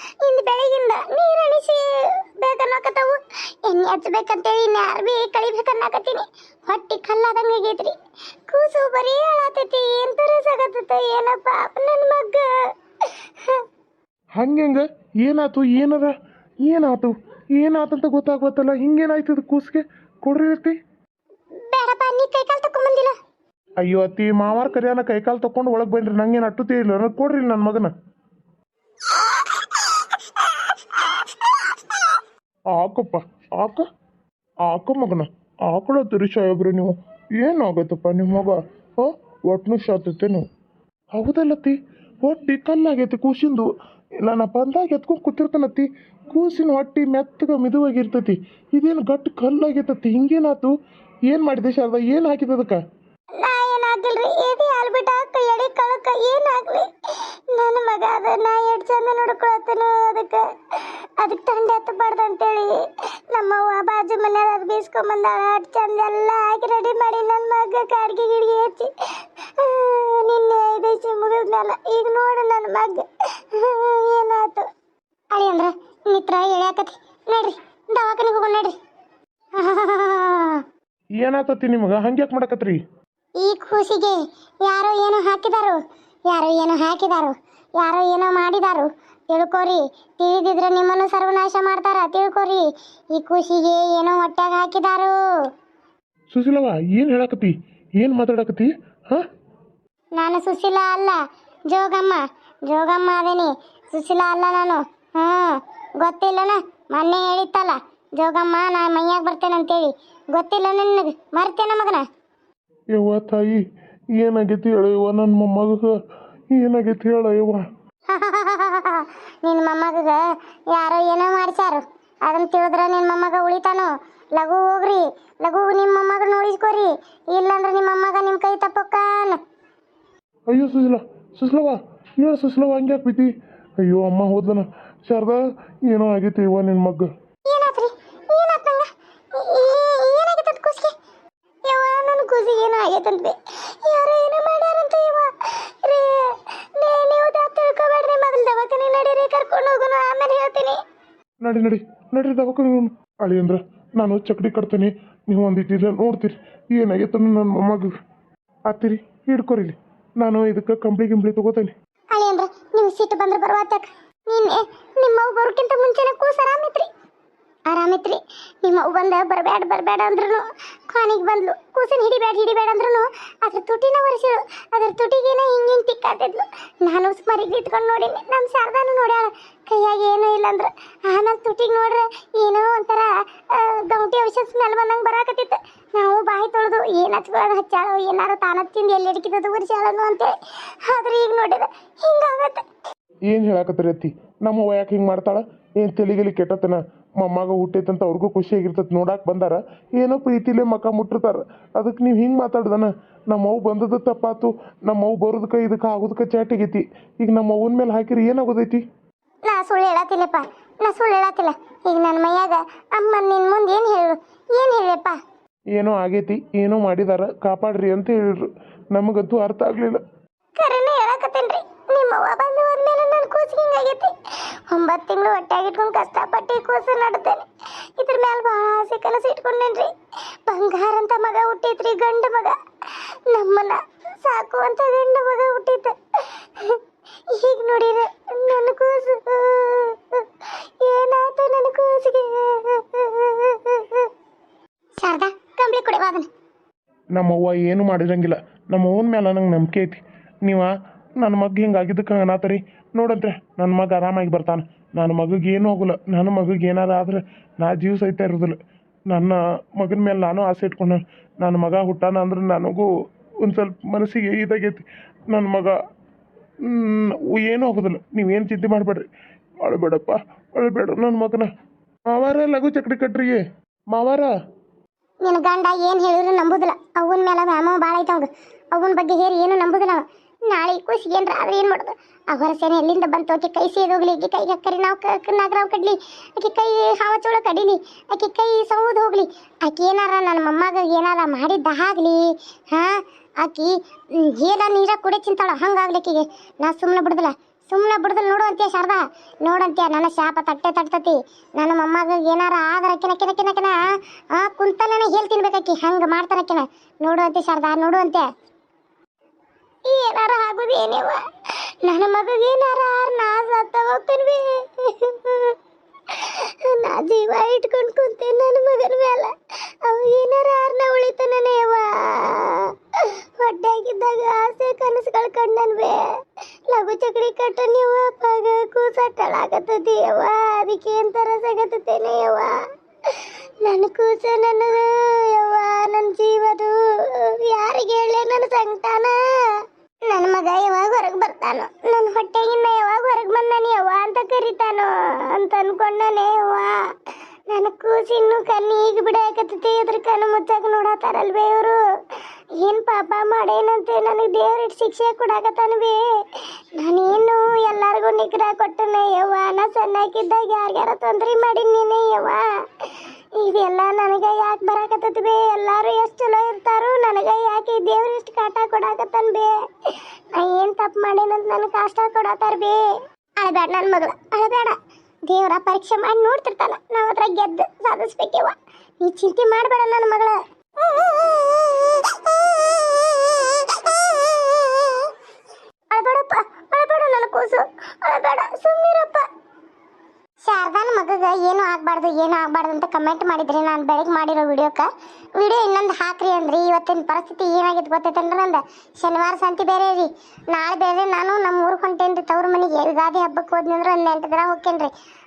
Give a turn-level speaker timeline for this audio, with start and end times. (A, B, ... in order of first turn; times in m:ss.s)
0:00.2-0:08.0 A
0:08.5-0:13.6 A
0:14.4-0:20.8 B
0:21.6-0:23.2 A
0:23.8-0:27.9 B
0:29.0-0:32.2 A
0:32.7-0:33.9 B
0:34.6-0:40.4 B
0:41.1-0:43.7 B
0:44.2-0:50.7 B
0:51.3-0:52.8 B
0:53.4-1:14.7 A
1:15.3-1:18.8 A
1:19.6-1:20.6 A
1:21.2-1:22.8 B
1:23.4-1:35.2 A
1:36.3-1:39.3 B
1:40.2-1:52.1 A
1:52.9-1:53.6 B
1:54.1-1:56.0 B
1:56.5-1:57.6 B
1:58.1-2:09.4 A
2:10.5-2:17.1 B
2:17.5-2:21.0 A
2:21.7-2:30.8 A
2:31.4-2:37.9 B
2:38.7-2:41.7 B
2:42.1-2:46.9 A
2:47.7-3:12.7 A
3:13.3-3:28.8 B
3:29.4-3:35.2 A
3:35.8-3:40.0 B
3:40.6-3:44.2 A
3:44.7-3:49.9 A
3:50.5-3:52.6 A
3:53.3-4:04.1 A
4:05.0-4:06.3 A
4:07.2-4:18.6 B
4:19.1-4:22.9 B
4:23.4-4:25.8 B
4:26.7-4:29.1 B
4:29.6-4:31.5 B
4:32.1-4:33.4 B
4:33.9-4:34.3 B
4:35.2-5:03.8 A
5:04.3-5:08.3 A
5:09.9-5:11.2 A
5:11.8-5:15.6 A
5:16.1-5:26.2 A
5:26.7-5:46.9 A
5:47.5-6:12.8 A
6:13.4-6:25.1 A
6:25.9-6:29.3 A
6:30.4-6:44.9 A